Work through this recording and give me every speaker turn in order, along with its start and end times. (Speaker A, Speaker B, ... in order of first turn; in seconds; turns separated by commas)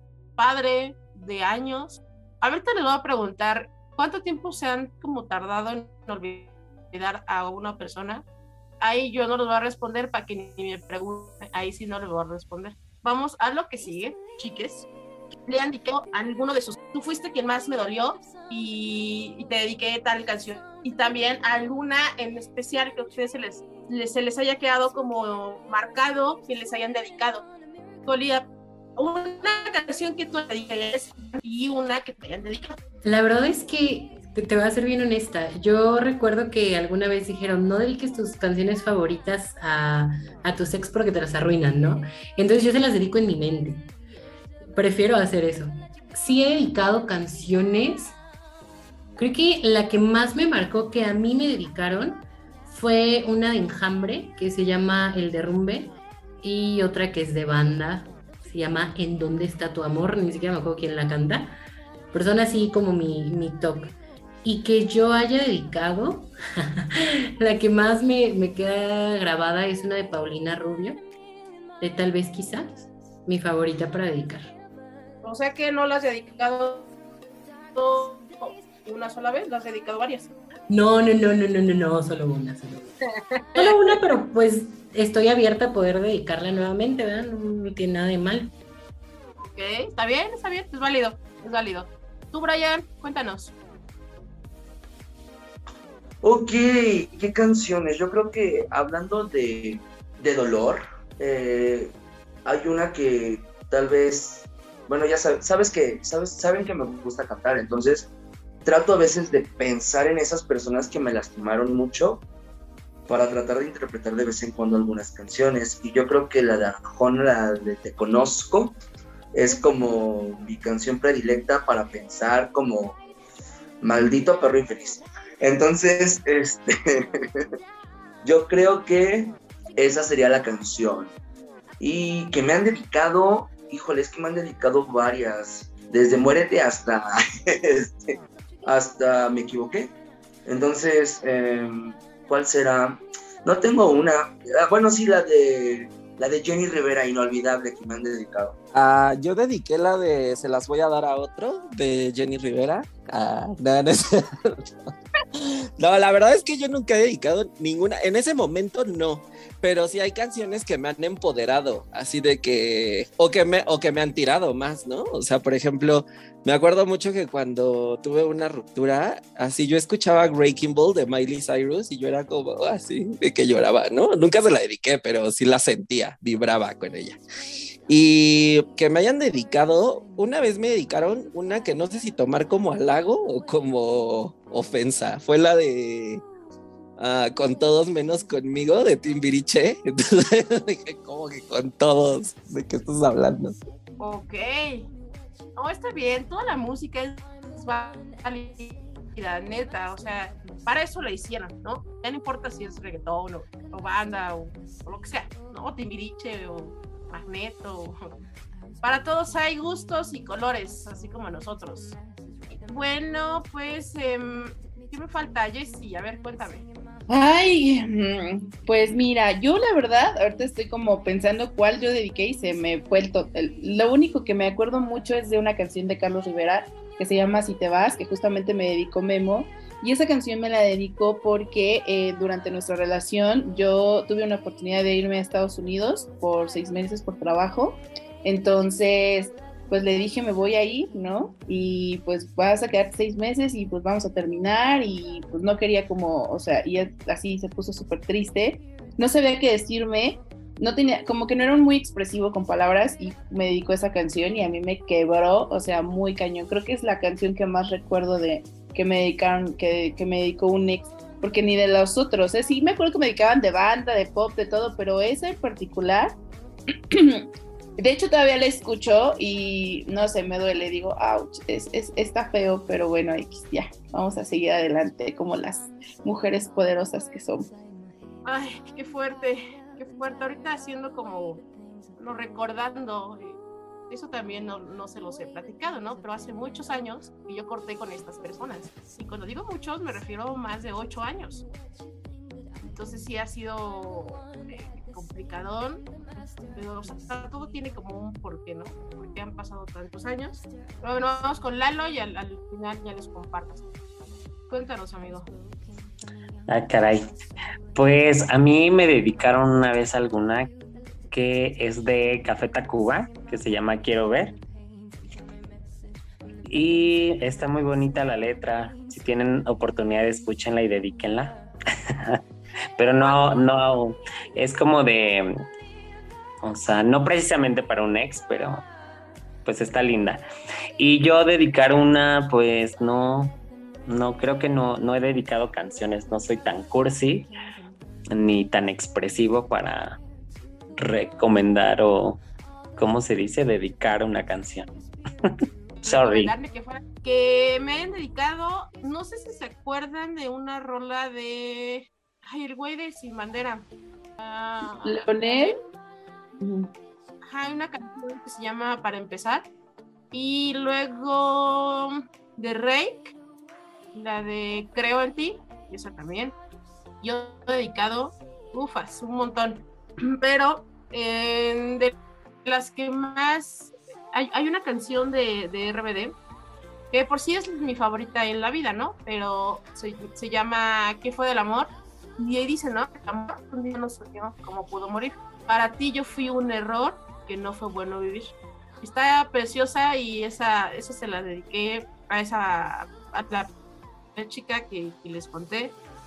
Speaker A: 0.4-8.2, Speaker A: 8.8-14.9, Speaker A: 15.5-27.5, Speaker A: 28.1-32.8, Speaker B: 33.0-43.9, Speaker B: 44.8-48.2, Speaker B: 49.2-61.6, Speaker B: 62.1-71.0, Speaker B: 71.8-74.5, Speaker A: 75.2-76.9, Speaker A: 77.8-80.3, Speaker B: 80.7-82.9, Speaker A: 83.4-83.8, Speaker B: 83.5-88.5, Speaker A: 89.4-93.5, Speaker C: 96.2-108.1, Speaker C: 108.7-112.2, Speaker C: 113.1-118.8, Speaker C: 119.3-123.0, Speaker C: 123.8-127.5, Speaker C: 128.2-131.1, Speaker C: 131.8-139.9, Speaker C: 140.5-148.6, Speaker D: 148.7-154.9, Speaker D: 155.8-177.2, Speaker D: 177.9-186.2, Speaker D: 187.0-193.6, Speaker A: 194.0-194.9, Speaker A: 195.6-208.0, Speaker A: 208.8-212.0, Speaker A: 212.7-216.7, Speaker E: 217.1-266.2, Speaker E: 266.9-267.3, Speaker E: 267.8-277.5, Speaker A: 278.2-281.4, Speaker A: 282.0-291.4, Speaker A: 292.6-295.9, Speaker A: 296.5-303.6, Speaker A: 304.5-305.3, Speaker F: 306.5-307.0, Speaker F: 307.7-310.5, Speaker F: 311.1-314.4, Speaker F: 316.5-321.4, Speaker F: 322.8-325.3, Speaker A: 323.0-323.6, Speaker F: 326.4-328.7, Speaker F: 329.4-330.2, Speaker F: 330.8-337.3, Speaker F: 338.1-340.0, Speaker F: 340.8-342.2, Speaker F: 342.8-346.3, Speaker A: 345.8-353.7, Speaker A: 354.2-355.6, Speaker E: 354.9-355.6, Speaker E: 356.4-356.7, Speaker A: 357.3-359.5, Speaker A: 360.1-363.1, Speaker A: 363.9-366.4, Speaker A: 367.0-371.9, Speaker A: 372.4-376.2, Speaker A: 376.9-393.5, Speaker A: 394.2-395.8